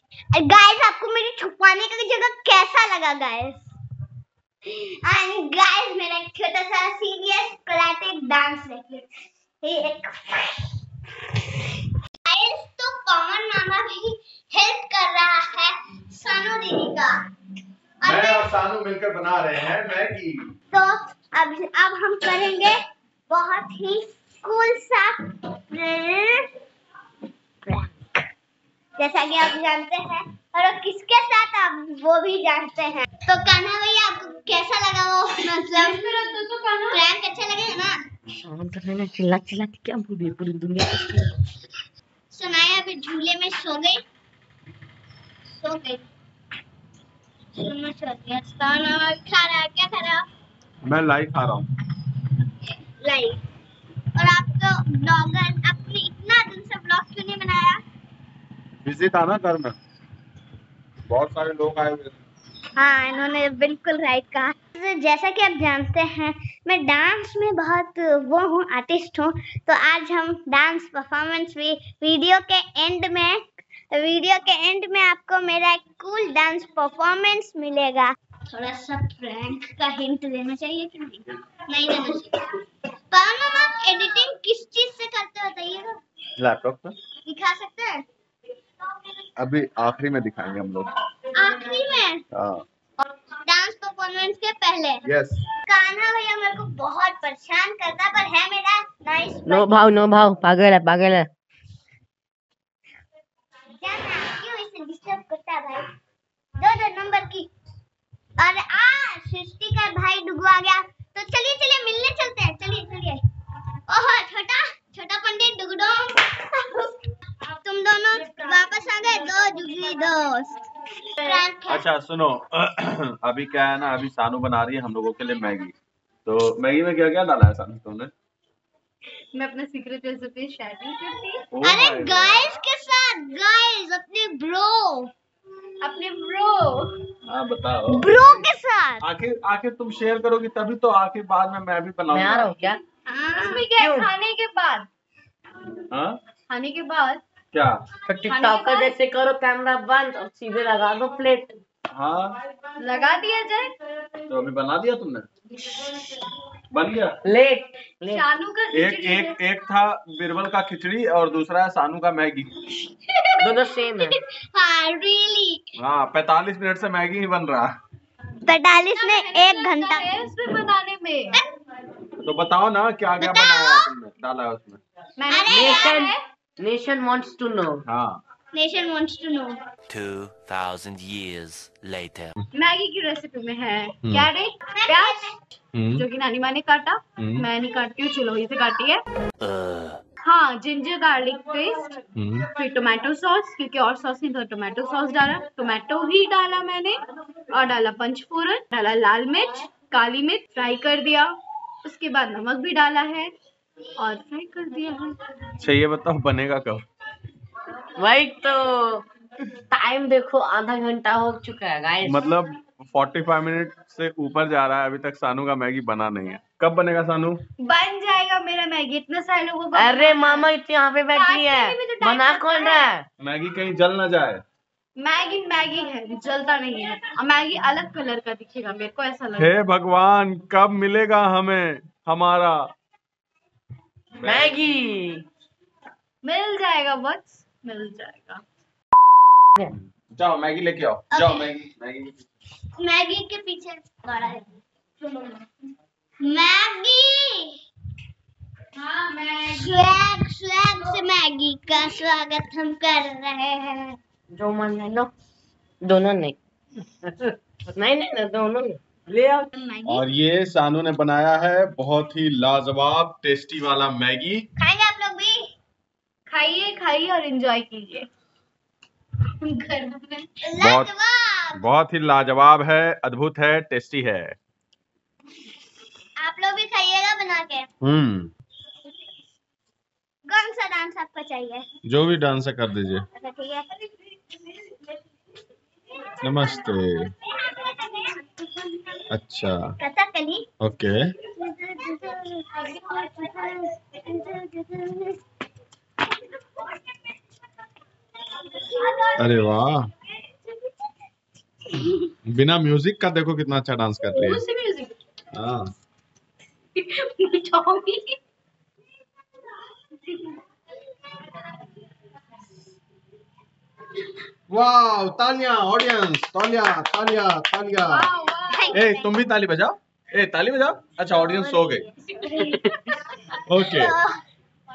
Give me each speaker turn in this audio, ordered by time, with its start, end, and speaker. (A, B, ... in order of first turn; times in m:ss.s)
0:00.3-0:03.7 A
0:04.7-0:09.1 A
0:09.6-0:10.7 A
0:12.2-0:17.2 A
0:18.0-0:18.5 A
0:18.0-0:20.5 B
0:20.7-0:22.8 A
0:23.3-0:26.5 A
0:29.0-0:36.2 A
0:35.7-0:37.0 C
0:36.9-0:38.0 A
0:38.4-0:41.3 D
0:42.3-0:44.0 A
0:45.5-0:46.0 A
0:47.6-0:50.3 A
0:50.8-0:51.7 B
0:53.0-0:53.4 A
0:54.2-0:57.8 A
0:58.8-0:59.8 B
1:01.1-1:02.2 B
1:02.8-1:22.6 A
1:23.1-1:26.0 A
1:26.4-1:27.0 B
1:27.2-1:28.0 A
1:29.4-1:30.9 B
1:31.3-1:32.2 A
1:32.3-1:32.6 B
1:33.4-1:35.0 A
1:35.0-1:35.4 B
1:35.6-1:39.8 A
1:39.5-1:41.3 D
1:43.8-1:45.9 A
1:46.6-1:47.5 A
1:48.4-1:53.2 A
1:53.9-1:57.0 A
1:57.6-2:00.6 A
2:01.2-2:01.8 A
2:01.7-2:05.7 B
2:06.2-2:08.1 B
2:09.3-2:11.4 C
2:11.5-2:12.5 B
2:11.6-2:15.1 A
2:15.8-2:17.0 C
2:17.3-2:18.5 B
2:17.9-2:19.0 A
2:19.0-2:22.5 B
2:22.1-2:22.8 D
2:23.1-2:23.6 A
2:23.4-2:24.9 C
2:23.8-2:24.1 D
2:25.9-2:26.2 B
2:26.5-2:27.2 C
2:27.5-2:27.8 B
2:28.1-2:31.6 D
2:28.2-2:28.9 C
2:31.9-2:32.4 B
2:32.8-2:33.7 C
2:34.3-2:35.3 B
2:36.7-2:37.2 B
2:37.2-2:38.2 D
2:38.1-2:39.4 C
2:38.7-2:42.5 B
2:43.1-2:43.4 A
2:43.4-2:44.2 D
2:44.0-2:45.6 A
2:45.8-2:47.8 B
2:48.4-2:50.2 A
2:49.0-2:51.4 C
2:52.2-2:54.8 B
2:53.2-2:53.9 A
2:55.2-2:56.2 C
2:55.3-2:56.1 A
2:55.5-2:57.8 D
2:57.9-2:58.2 B
2:58.5-2:59.6 A
2:59.9-3:02.3 E
3:02.5-3:05.3 C
3:04.7-3:05.3 A
3:05.7-3:06.0 B
3:05.9-3:09.0 C
3:07.2-3:07.5 B
3:09.4-3:10.0 E
3:10.2-3:12.0 C
3:12.2-3:12.5 B
3:12.6-3:17.0 C
3:17.5-3:21.3 C
3:21.8-3:23.3 C
3:24.0-3:25.2 C
3:25.6-3:26.8 B
3:28.0-3:29.1 D
3:29.6-3:32.2 D
3:32.0-3:37.4 B
3:37.6-3:40.5 C
3:39.7-3:43.1 D
3:41.1-3:42.9 C
3:43.2-3:44.4 B
3:45.0-3:49.6 C
3:49.4-3:52.7 B
3:54.2-3:54.6 B
3:54.2-3:55.2 D
3:56.2-3:58.4 C
4:00.1-4:02.3 B
4:01.1-4:01.5 A
4:02.8-4:04.5 A
4:06.2-4:07.6 A
4:08.8-4:09.8 C
4:09.5-4:14.0 A
4:14.3-4:15.1 D
4:15.8-4:16.4 D
4:17.1-4:19.5 D
4:19.5-4:20.0 A
4:19.9-4:24.5 B
4:24.6-4:25.5 A
4:26.3-4:28.1 C
4:29.4-4:30.3 C
4:30.4-4:31.6 A
4:30.6-4:30.9 B
4:31.6-4:34.4 B
4:36.2-4:37.7 A
4:37.8-4:38.3 B
4:40.3-4:41.7 A
4:41.8-4:43.1 B
4:43.2-4:43.7 A
4:46.2-4:47.1 B
4:47.3-4:48.8 A
4:49.1-4:49.8 B
4:49.8-4:50.5 A
4:50.6-4:51.1 B
4:51.3-4:55.2 A
4:58.7-4:59.1 A
4:59.2-4:59.9 B
5:02.2-5:04.4 B
5:04.1-5:05.0 C
5:05.3-5:05.7 B
5:06.8-5:08.2 C
5:14.5-5:18.1 B
5:17.9-5:18.9 C
5:18.5-5:19.1 A
5:18.7-5:21.9 B
5:21.1-5:22.6 A
5:22.0-5:23.0 C
5:23.5-5:23.9 B
5:23.6-5:24.2 A